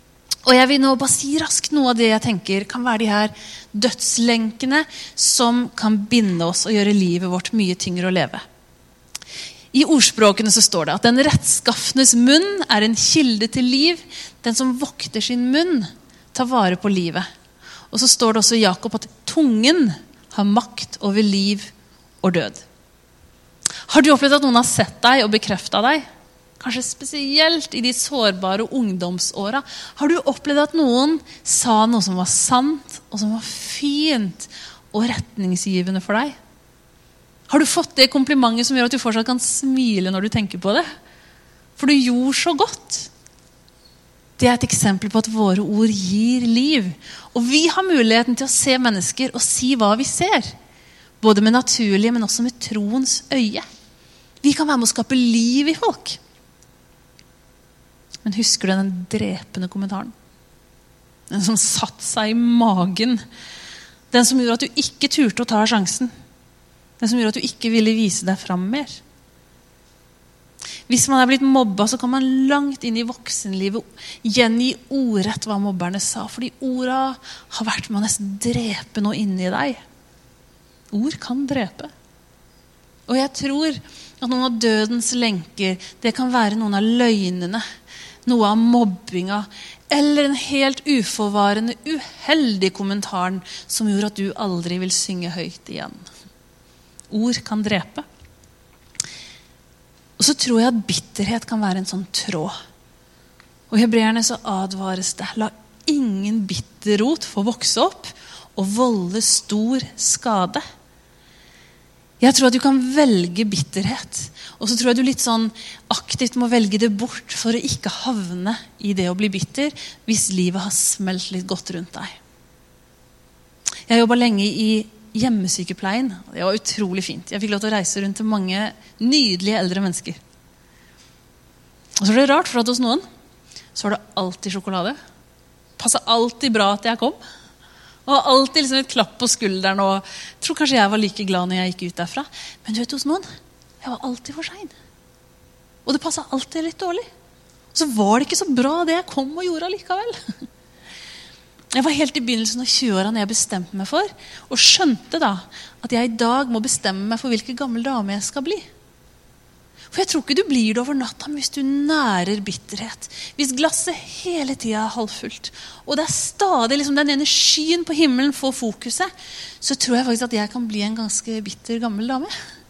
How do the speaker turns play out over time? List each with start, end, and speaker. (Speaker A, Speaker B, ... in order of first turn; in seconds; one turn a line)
Speaker A: 0.5-8.4
Speaker A: 9.7-17.2
Speaker A: 17.9-21.7
Speaker A: 22.2-22.6
Speaker A: 23.9-26.0
Speaker A: 26.6-36.3
Speaker A: 37.5-40.8
Speaker A: 41.8-43.1
Speaker A: 44.4-50.5
Speaker A: 51.2-53.6
Speaker A: 54.4-56.2
Speaker A: 58.2-60.1
Speaker A: 61.3-63.2
Speaker A: 64.1-66.1
Speaker A: 67.0-69.0
Speaker A: 70.9-79.8
Speaker A: 80.9-81.9
Speaker A: 83.1-87.6
Speaker A: 88.2-96.0
Speaker A: 97.1-98.0
Speaker A: 100.2-102.5
Speaker A: 103.7-110.6
Speaker A: 112.2-122.2
Speaker A: 123.9-130.2
Speaker A: 132.0-133.0
Speaker A: 133.7-135.0
Speaker A: 135.8-137.2
Speaker A: 138.1-143.2
Speaker A: 143.8-144.7
Speaker A: 145.8-147.1
Speaker A: 147.7-150.2
Speaker A: 151.7-158.7
Speaker A: 159.9-169.1
Speaker A: 169.6-172.3